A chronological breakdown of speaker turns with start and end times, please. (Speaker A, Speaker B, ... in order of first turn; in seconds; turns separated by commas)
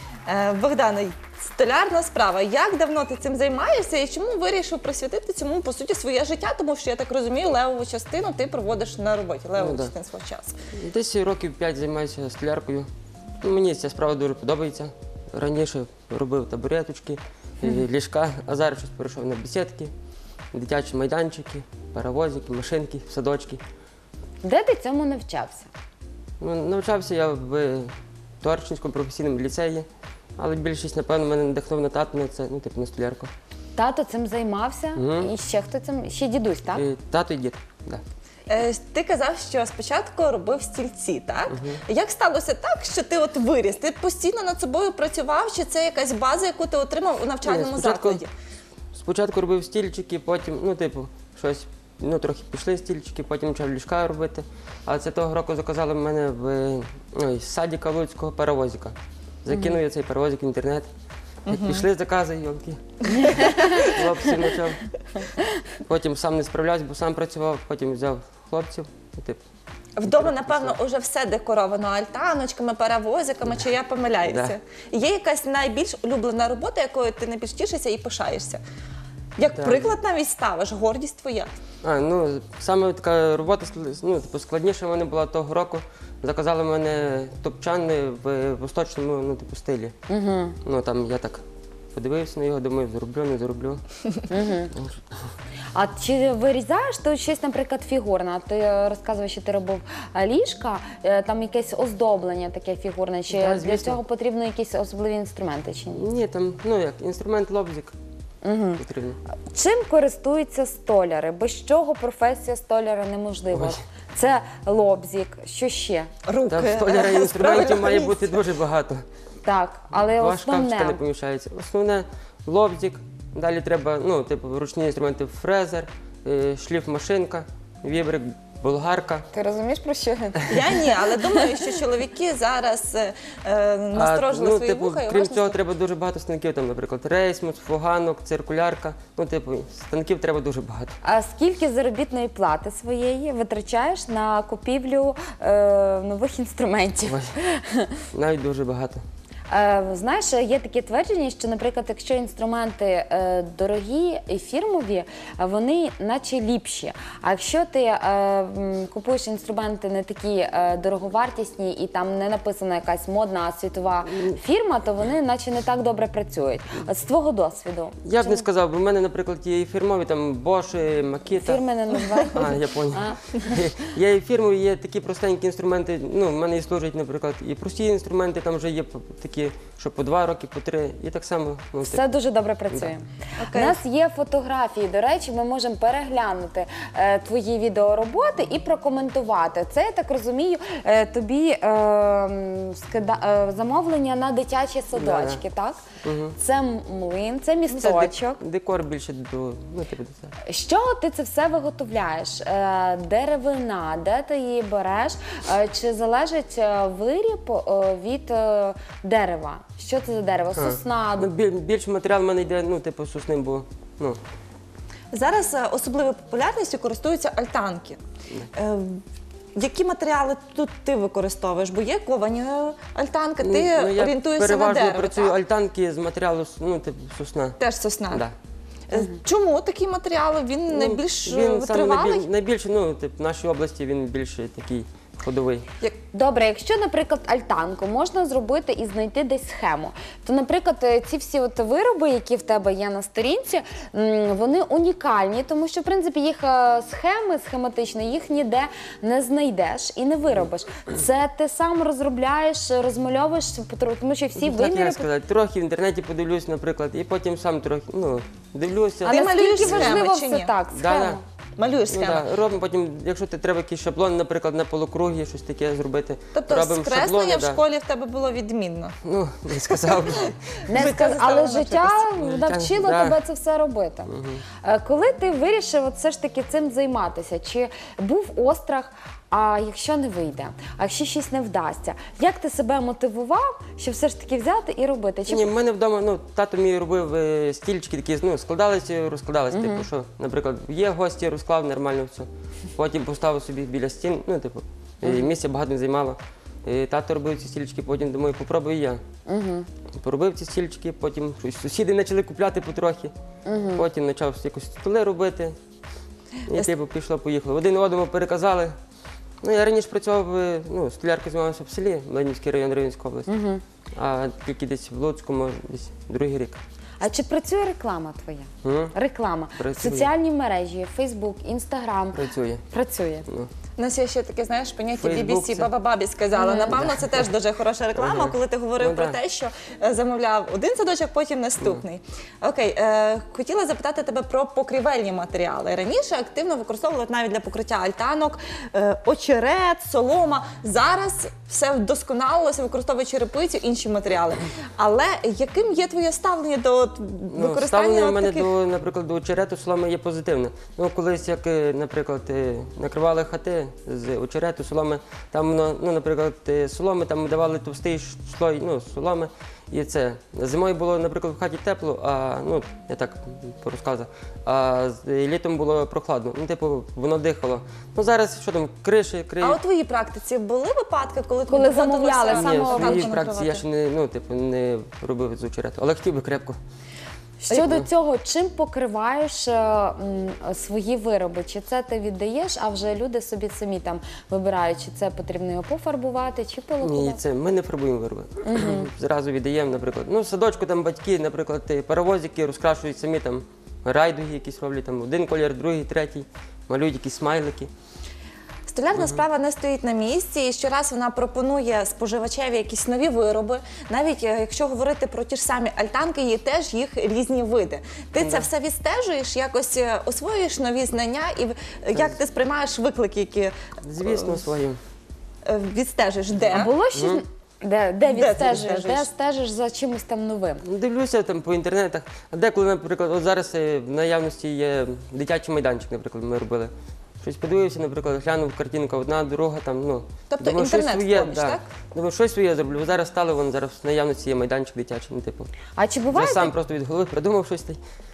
Speaker A: 0.2-10.6, Speaker B: 9.6-9.9, Speaker B: 10.7-12.9, Speaker B: 13.4-19.9, Speaker B: 20.5-23.6, Speaker C: 24.4-25.7, Speaker B: 26.4-33.3, Speaker C: 33.7-36.8, Speaker B: 34.9-35.3, Speaker B: 36.7-38.0, Speaker A: 38.5-48.3, Speaker B: 41.5-41.8, Speaker B: 47.4-48.2, Speaker B: 48.9-60.9, Speaker A: 61.5-61.8, Speaker B: 61.5-64.8, Speaker A: 63.1-63.7, Speaker C: 63.5-63.9, Speaker B: 65.8-69.4, Speaker A: 70.0-78.6, Speaker B: 70.0-70.8, Speaker B: 74.2-74.5, Speaker A: 79.4-81.5, Speaker B: 79.5-79.9, Speaker B: 81.8-89.9, Speaker C: 90.1-90.6, Speaker B: 90.6-91.4, Speaker B: 91.9-93.8, Speaker C: 94.3-94.7, Speaker B: 94.7-95.0, Speaker C: 95.7-106.0, Speaker B: 103.3-104.0, Speaker B: 105.9-107.9, Speaker C: 108.4-108.8, Speaker B: 108.8-109.2, Speaker C: 109.5-116.1, Speaker A: 116.3-118.4, Speaker B: 116.5-119.0, Speaker C: 119.4-121.0, Speaker B: 120.0-129.3, Speaker C: 129.3-130.7, Speaker A: 130.5-135.6, Speaker C: 131.2-131.5, Speaker B: 133.9-141.0, Speaker C: 141.0-148.0, Speaker B: 147.1-147.3, Speaker B: 148.1-149.0, Speaker C: 149.5-168.4, Speaker B: 168.0-171.6, Speaker C: 171.3-173.6, Speaker B: 172.2-182.0, Speaker C: 181.8-195.8, Speaker A: 183.4-183.8, Speaker B: 194.9-195.4, Speaker B: 196.0-196.4, Speaker C: 196.4-198.4, Speaker B: 197.7-200.3, Speaker C: 200.4-211.3, Speaker B: 210.5-214.2, Speaker A: 215.1-218.0, Speaker A: 218.5-219.0, Speaker A: 219.5-225.3, Speaker B: 223.4-227.6, Speaker A: 227.6-228.3, Speaker B: 228.1-228.3, Speaker A: 228.9-232.3, Speaker B: 230.7-235.7, Speaker C: 236.1-255.1, Speaker B: 254.3-260.0, Speaker A: 259.0-260.5, Speaker C: 259.0-261.2, Speaker B: 260.7-261.2, Speaker A: 261.6-262.3, Speaker B: 261.9-267.6, Speaker A: 266.3-268.9, Speaker B: 269.0-270.4, Speaker A: 269.7-272.0, Speaker C: 270.7-274.1, Speaker B: 272.1-273.2, Speaker B: 274.1-274.4, Speaker C: 274.6-285.5, Speaker B: 285.3-299.0, Speaker C: 289.5-289.8, Speaker C: 299.2-299.7, Speaker B: 299.9-303.1, Speaker C: 303.4-303.8, Speaker B: 303.7-305.6, Speaker B: 306.5-308.7, Speaker B: 309.4-313.3, Speaker C: 313.3-313.6, Speaker B: 313.9-316.6, Speaker C: 317.0-323.2, Speaker B: 318.6-318.9, Speaker B: 319.6-320.1, Speaker B: 322.1-322.6, Speaker A: 323.8-348.5, Speaker B: 325.0-325.7, Speaker C: 326.4-326.8, Speaker B: 326.7-327.2, Speaker B: 327.9-329.2, Speaker B: 347.3-369.6, Speaker A: 369.4-373.6, Speaker C: 371.5-373.2, Speaker B: 372.2-376.6, Speaker C: 377.4-387.2, Speaker B: 377.5-377.9, Speaker B: 386.8-397.7, Speaker C: 388.4-388.9, Speaker A: 398.7-414.5, Speaker B: 398.9-399.2, Speaker B: 408.2-408.5, Speaker B: 413.8-414.8, Speaker A: 415.4-416.7, Speaker C: 416.5-420.6, Speaker B: 416.9-417.2, Speaker A: 418.0-419.1, Speaker B: 420.6-435.5, Speaker A: 430.3-431.7, Speaker C: 435.7-436.5, Speaker B: 436.1-437.8